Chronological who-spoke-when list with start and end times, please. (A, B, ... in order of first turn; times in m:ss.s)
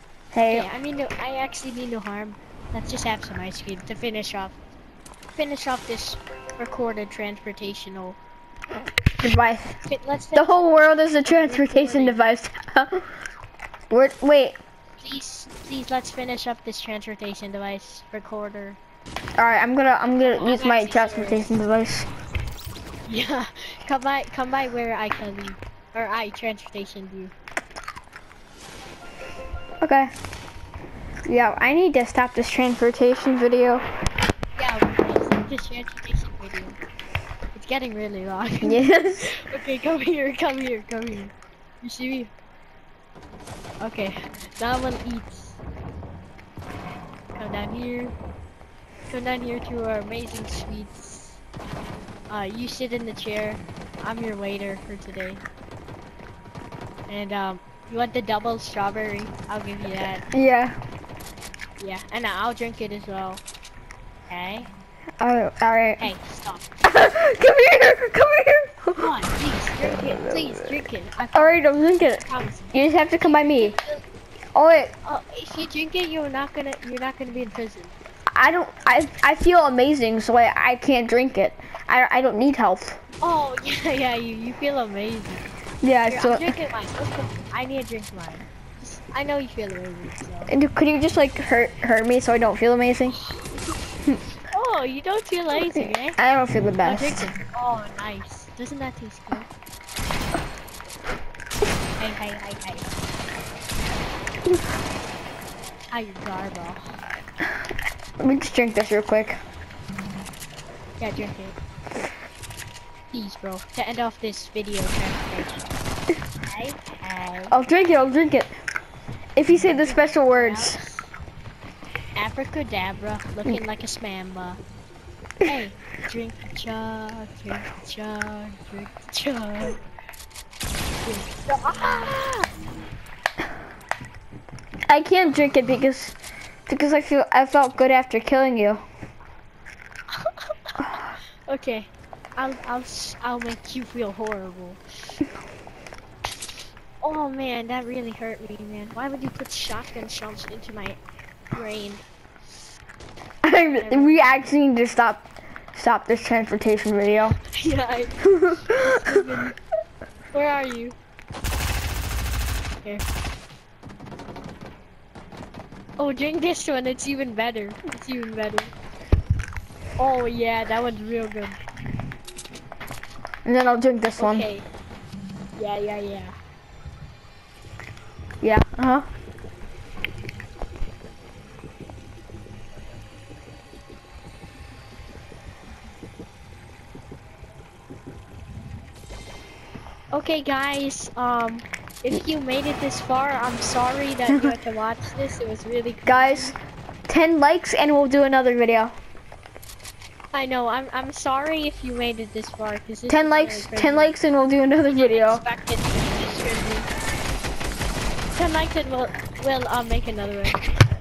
0:00.3-0:00.7 A
0:00.5-0:04.6 B
0:05.4-0:08.2 B
0:09.2-0:09.8 A
0:09.9-0:12.2 B
0:10.4-0:13.1 A
0:13.9-0:14.6 A
0:15.0-0:18.8 B
0:19.4-0:22.1 A
0:20.2-0:21.6 B
0:23.1-0:27.3 B
0:29.8-0:30.1 A
0:31.3-0:33.8 A
0:34.6-0:36.8 B
0:37.5-0:42.3 B
0:38.6-0:39.3 A
0:43.8-0:45.6 B
0:47.4-0:48.1 B
0:49.1-0:51.4 B
0:52.3-0:55.4 B
0:57.1-1:00.2 B
1:00.3-1:00.8 A
1:01.8-1:03.4 B
1:04.3-1:04.7 B
1:05.2-1:06.0 A
1:06.0-1:06.7 B
1:06.8-1:09.1 A
1:09.0-1:14.0 B
1:09.8-1:10.7 A
1:11.3-1:13.8 A
1:14.6-1:14.9 A
1:15.0-1:17.9 B
1:18.3-1:23.0 A
1:23.2-1:25.5 B
1:25.8-1:26.5 A
1:26.1-1:30.5 B
1:30.5-1:33.2 A
1:33.2-1:33.5 B
1:34.5-1:36.2 B
1:35.8-1:37.3 A
1:36.8-1:39.5 B
1:42.0-1:43.0 B
1:45.9-1:47.0 B
1:48.2-1:49.4 A
1:51.0-1:51.6 B
1:53.1-1:55.6 B
1:56.4-1:57.6 B
1:57.5-1:58.6 A
1:59.4-2:00.8 A
1:59.6-2:01.1 B
2:02.2-2:04.6 B
2:05.4-2:09.8 B
2:11.0-2:12.5 B
2:14.9-2:16.2 A
2:16.7-2:18.8 A
2:20.1-2:25.2 B
2:27.0-2:31.0 B
2:31.5-2:32.0 B
2:33.4-2:37.4 A
2:33.7-2:34.3 B
2:37.4-2:39.6 B
2:38.2-2:39.2 A
2:40.3-2:41.0 B
2:46.0-2:48.8 B
2:50.0-2:51.6 B
2:53.4-2:54.5 A
2:54.2-2:54.7 B
2:55.6-2:56.4 B
2:58.4-2:59.1 A
3:10.1-3:16.6 B
3:16.1-3:16.6 A
3:17.1-3:19.0 A
3:20.3-3:24.2 B
3:23.1-3:25.4 A
3:24.9-3:26.9 B
3:28.3-3:30.6 B